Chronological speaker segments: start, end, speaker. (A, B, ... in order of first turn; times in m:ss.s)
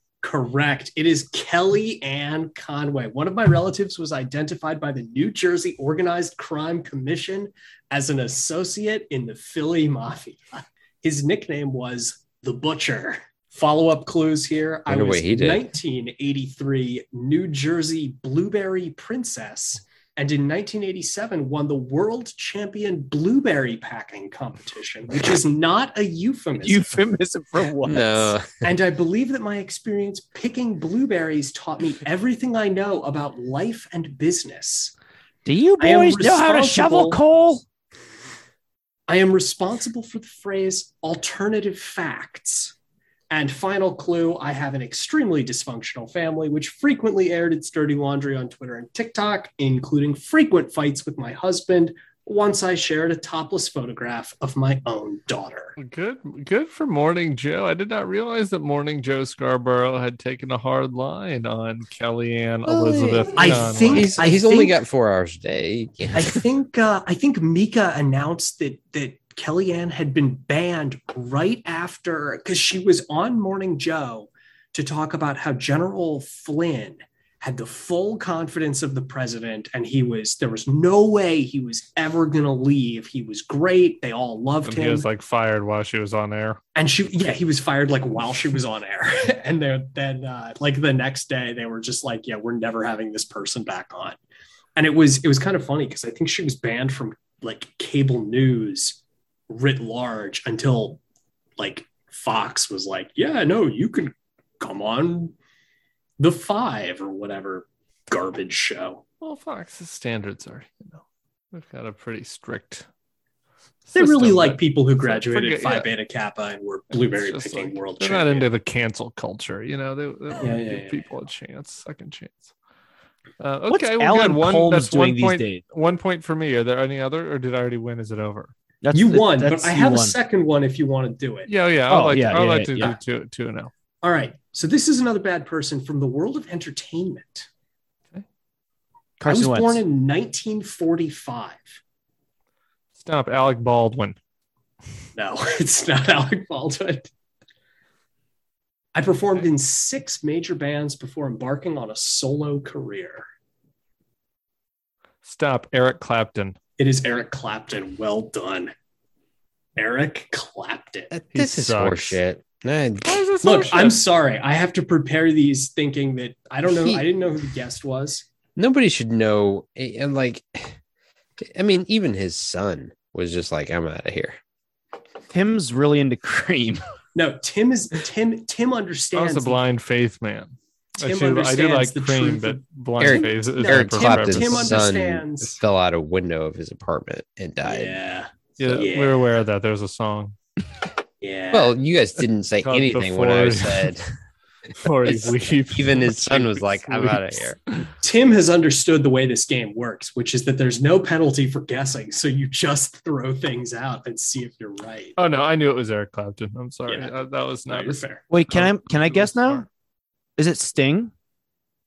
0:00.2-0:27.0 A
0:14.9-0:15.6 B
0:26.6-0:28.3 C
0:27.8-0:28.6 B
0:28.6-0:34.9 A
0:35.4-0:37.6 C
0:35.8-0:37.2 A
0:39.1-0:42.7 A
0:43.3-0:55.7 A
0:55.8-1:04.1 D
1:02.6-1:06.4 B
1:03.4-1:04.8 A
1:06.1-1:25.1 A
1:24.6-1:26.6 D
1:26.7-1:34.2 A
1:34.8-1:41.0 A
1:41.6-1:45.3 A
1:46.2-1:49.0 A
1:49.2-1:51.0 D
1:51.5-1:52.9 D
1:53.9-1:55.9 D
1:53.9-1:58.5 A
1:56.9-2:02.5 D
2:00.4-2:01.0 A
2:03.4-2:08.5 D
2:03.7-2:05.6 C
2:08.8-2:10.2 C
2:08.9-2:11.5 A
2:11.5-2:13.7 D
2:11.9-2:13.0 C
2:14.0-2:17.5 A
2:19.2-2:19.8 C
2:19.2-2:21.6 A
2:23.0-2:24.2 D
2:25.1-2:27.1 A
2:28.9-2:33.2 A
2:35.2-2:36.6 D
2:36.8-2:38.7 A
2:39.8-2:41.1 A
2:41.1-2:43.2 B
2:41.3-2:42.2 D
2:43.0-2:44.0 D
2:43.4-2:48.2 A
2:46.6-2:47.0 B
2:48.6-2:50.8 B
2:51.5-2:54.4 B
2:55.3-2:56.8 C
2:57.1-2:59.6 A
2:59.1-3:04.8 D
3:01.0-3:05.6 A
3:03.0-3:08.0 B
3:07.6-3:09.2 A
3:08.6-3:10.3 D
3:08.6-3:08.9 B
3:11.2-3:11.7 A
3:11.5-3:14.1 B
3:12.6-3:13.9 D
3:14.8-3:17.8 D
3:15.0-3:17.6 B
3:18.0-3:25.2 A
3:25.2-3:29.6 D
3:26.9-3:28.2 A
3:28.3-3:29.6 C
3:30.4-3:31.1 C